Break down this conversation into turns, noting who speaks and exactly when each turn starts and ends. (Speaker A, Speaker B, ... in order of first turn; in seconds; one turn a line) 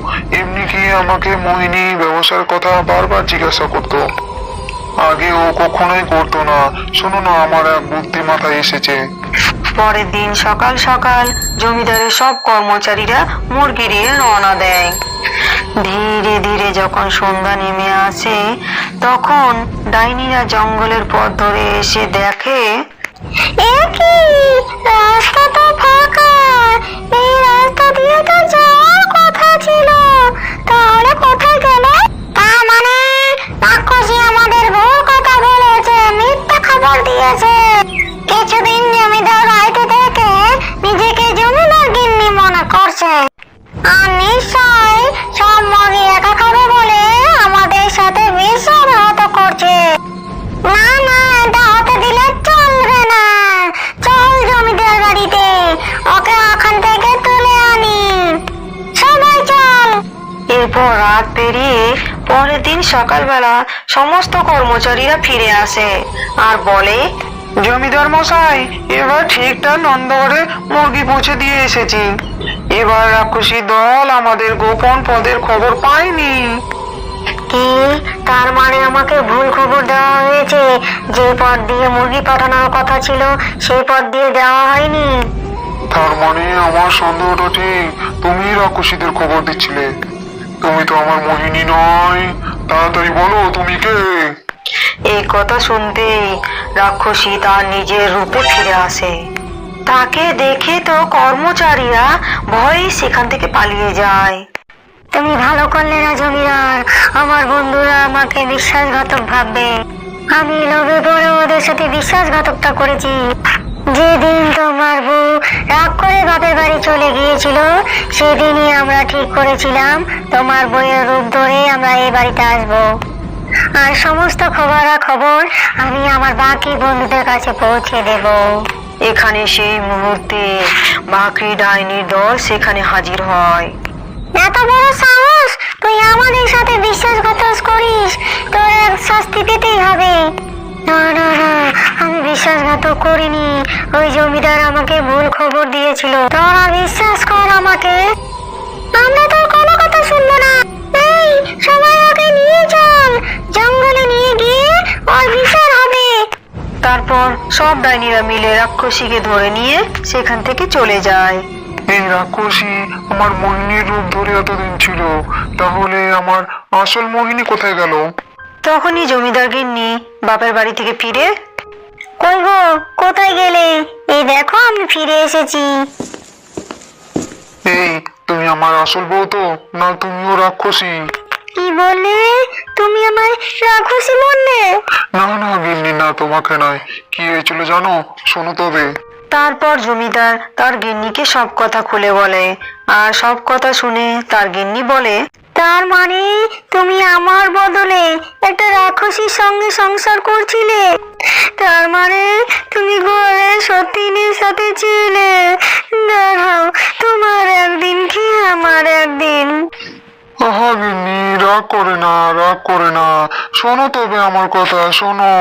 Speaker A: 0.3-4.0
Speaker A: 5.0-9.0
Speaker B: 9.8-14.9
Speaker B: 15.8-18.4
Speaker B: 19.0-22.6
Speaker C: 23.6-37.6
Speaker C: 38.3-43.2
Speaker C: 43.9-49.8
Speaker C: 50.6-58.4
Speaker C: 58.9-60.0
Speaker B: 60.5-65.9
Speaker B: 66.4-67.0
Speaker A: 67.6-72.0
Speaker A: 72.7-76.4
Speaker C: 77.5-85.1
Speaker A: 85.9-89.8
Speaker A: 90.6-94.0
Speaker B: 95.1-96.3
Speaker B: 96.8-99.1
Speaker B: 99.9-104.4
Speaker C: 105.1-109.7
Speaker C: 110.3-113.2
Speaker C: 113.9-122.8
Speaker C: 123.8-128.4
Speaker B: 129.1-130.5
Speaker B: 131.1-133.7
Speaker C: 134.3-140.2
Speaker C: 140.9-148.0
Speaker C: 148.9-156.2
Speaker B: 156.8-161.4
Speaker A: 161.9-168.0
Speaker B: 168.6-171.3
Speaker C: 172.2-175.8
Speaker A: 177.7-180.9
Speaker C: 181.5-184.7
Speaker A: 185.2-188.9
Speaker B: 189.3-195.2
Speaker C: 195.6-200.8
Speaker C: 201.6-209.5
Speaker A: 210.4-215.3